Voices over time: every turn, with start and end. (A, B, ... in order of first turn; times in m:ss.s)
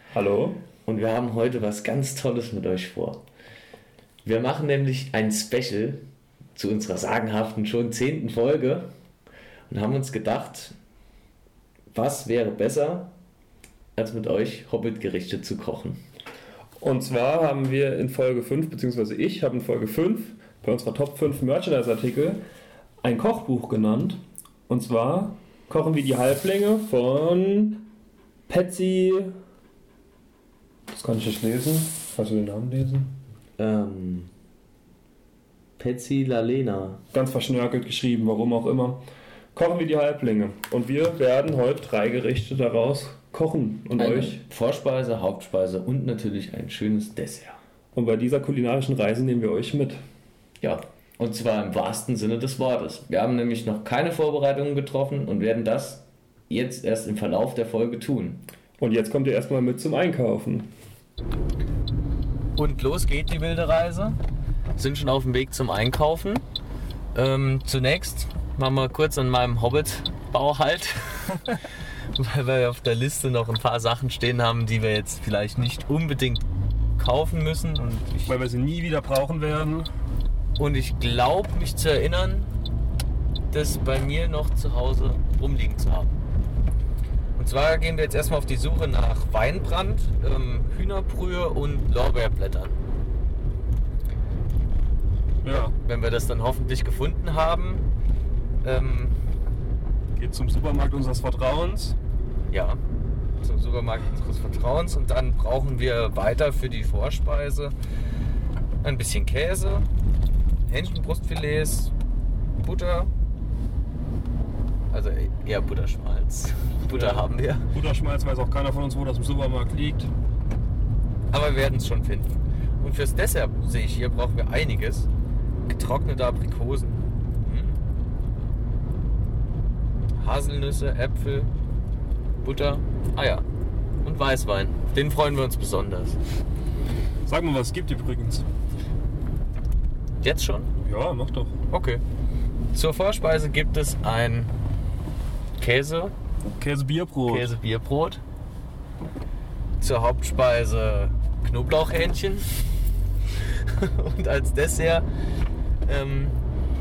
0:00.1-0:00.6 A
0:00.9-0:03.2 B
0:04.2-0:06.0 B
0:06.6-0:08.9 B
0:09.7-0:10.8 B
0:11.9-0:13.1 B
0:14.0-0:16.0 B
0:16.8-0:22.4 A
0:23.0-0:27.8 A
0:28.5-0:29.3 A
0:30.9-0:33.1 A
0:33.6-0:34.3 B
0:35.8-0:37.0 B
0:37.1-0:39.0 A
0:39.5-0:44.4 A
0:44.0-0:47.6 B
0:47.9-0:50.0 A
0:50.6-0:58.4 B
0:58.8-1:00.7 A
1:02.6-1:04.2 B
1:04.8-1:06.4 B
1:07.1-1:16.5 B
1:17.0-1:18.3 B
1:18.3-1:19.9 A
1:20.6-1:22.5 B
1:23.5-1:26.2 B
1:27.4-1:32.8 B
1:35.4-1:35.8 A
1:35.8-1:37.9 B
1:38.6-1:39.2 B
1:40.2-1:42.0 A
1:42.5-1:42.8 B
1:43.4-1:47.8 B
1:48.8-1:49.9 B
1:50.7-1:51.9 B
1:52.6-1:53.1 B
1:54.9-1:57.7 B
1:56.9-2:00.1 A
2:01.3-2:05.1 B
2:05.7-2:07.8 B
2:10.2-2:11.5 B
2:12.4-2:13.4 B
2:14.0-2:16.2 B
2:17.3-2:18.4 A
2:20.2-2:20.7 B
2:20.8-2:21.6 A
2:21.7-2:22.0 B
2:22.7-2:24.5 B
2:25.6-2:26.1 B
2:26.6-2:27.5 A
2:27.3-2:28.2 B
2:29.8-2:32.5 B
2:33.5-2:35.1 B
2:35.8-2:36.4 B